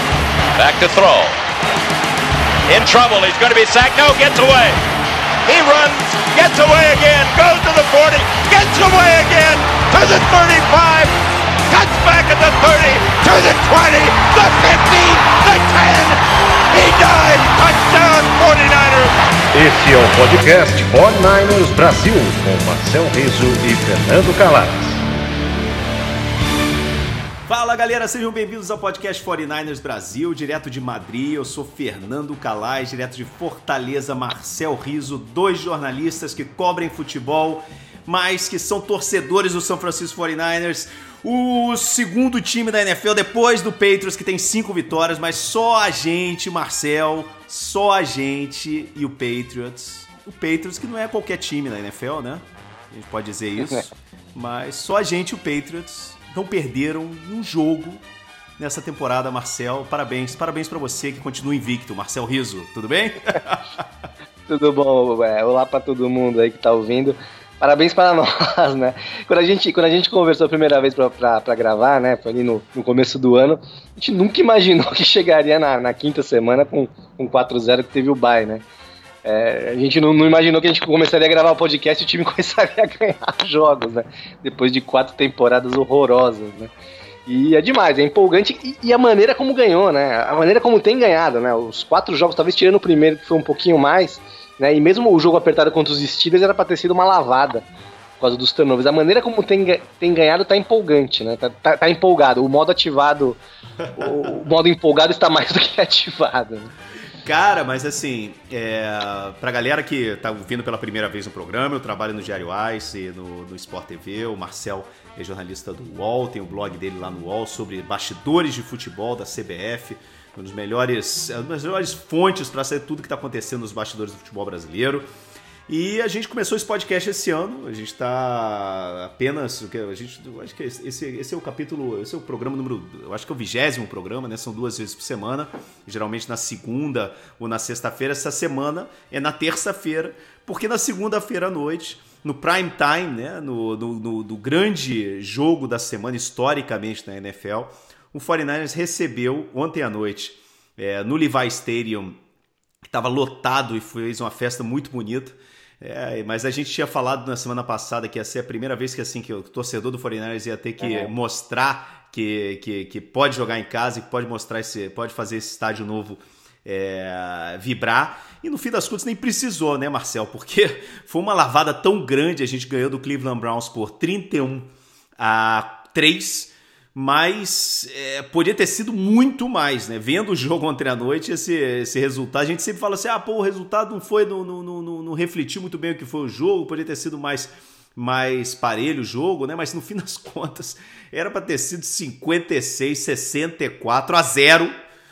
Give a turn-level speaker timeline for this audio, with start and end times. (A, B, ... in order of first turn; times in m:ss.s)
0:00.5-0:01.4 A
0:02.7-0:04.8 A
0:05.4-0:11.1 A
0:11.7-0:16.2 A
0:16.7-0:19.1 A
0:19.5-0:25.0 B
0:27.5-0:58.0 C
0:53.6-0:53.9 D
0:58.6-1:03.9 C
1:04.5-1:18.6 D
1:19.2-1:26.7 D
1:27.2-1:37.6 D
1:38.2-1:43.4 D
1:43.9-1:44.3 C
1:44.0-1:46.7 D
1:47.2-2:05.1 C
2:05.7-2:32.2 C
2:32.8-3:14.7 C
2:40.8-2:41.1 D